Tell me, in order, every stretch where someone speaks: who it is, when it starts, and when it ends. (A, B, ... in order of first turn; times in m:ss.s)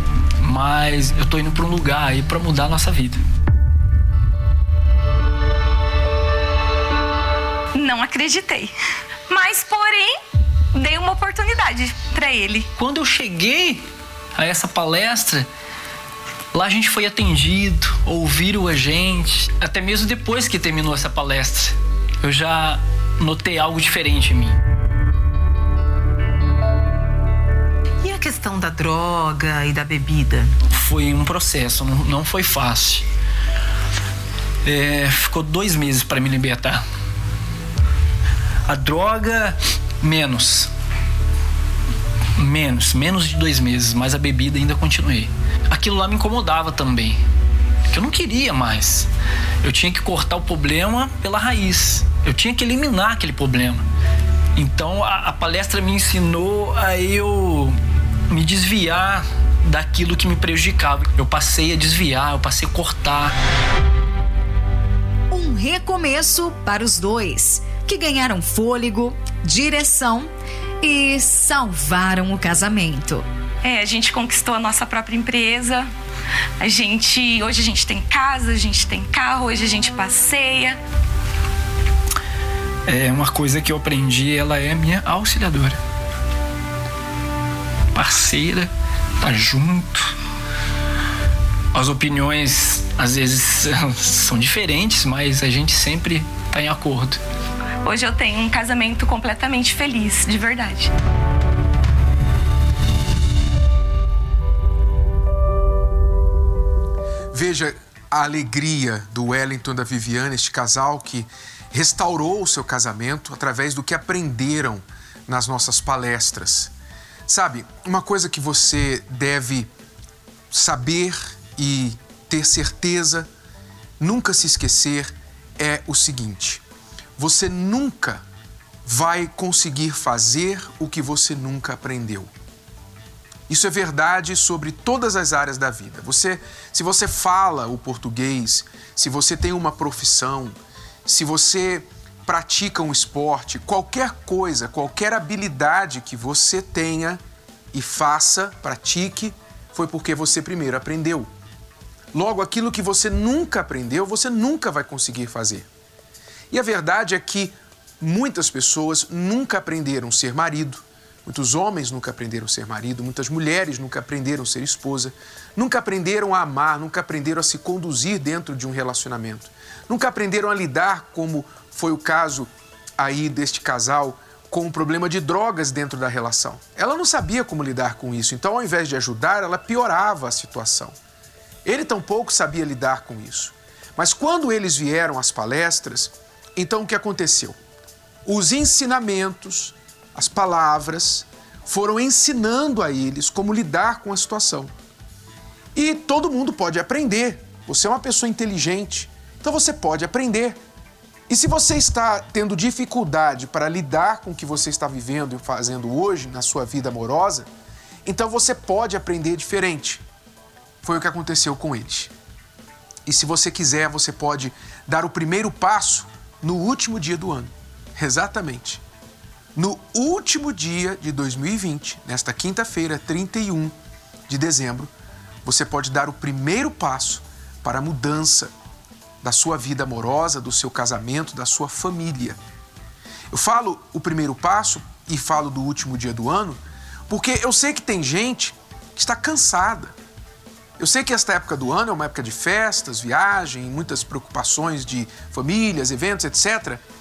0:00.4-0:03.2 A
0:07.7-0:08.7 B
0:09.3-0:10.2 B
0:10.7-0:12.7 B
0:12.8-0:13.8 A
0:14.4-0:15.5 A
0:16.5-0:24.6 A
0:28.0-0:30.4 C
0:30.7-0:33.0 A
0:34.6-0:36.8 A
0:38.7-0:40.7 A
0:42.4-0:47.2 A
0:47.9-0:49.1 A
0:49.6-0:53.8 A
0:54.6-0:57.8 A
0:58.3-1:03.3 A
1:05.3-1:13.2 D
1:13.6-1:15.9 B
1:16.6-1:20.8 B
1:22.9-1:25.8 A
1:27.9-1:28.7 A
1:29.2-1:30.1 A
1:31.7-1:37.2 A
1:37.8-1:40.9 B
1:47.3-1:56.7 E
1:57.3-1:59.7 E
2:00.5-2:03.3 E
2:04.0-2:06.6 E
2:07.2-2:08.2 E
2:08.8-2:12.3 E
2:13.5-2:27.2 E
2:27.7-2:31.3 E
2:32.1-2:35.7 E
2:36.5-3:01.0 E
3:01.6-3:07.6 E
3:08.2-3:14.7 E
3:15.7-3:20.6 E
3:21.3-3:27.5 E
3:28.0-3:30.0 E
3:30.8-3:32.1 E
3:33.0-3:38.8 E
3:39.5-3:43.8 E
3:44.3-3:44.9 E
3:45.4-3:48.5 E
3:49.2-3:52.4 E
3:53.3-3:59.9 E
4:00.8-4:06.8 E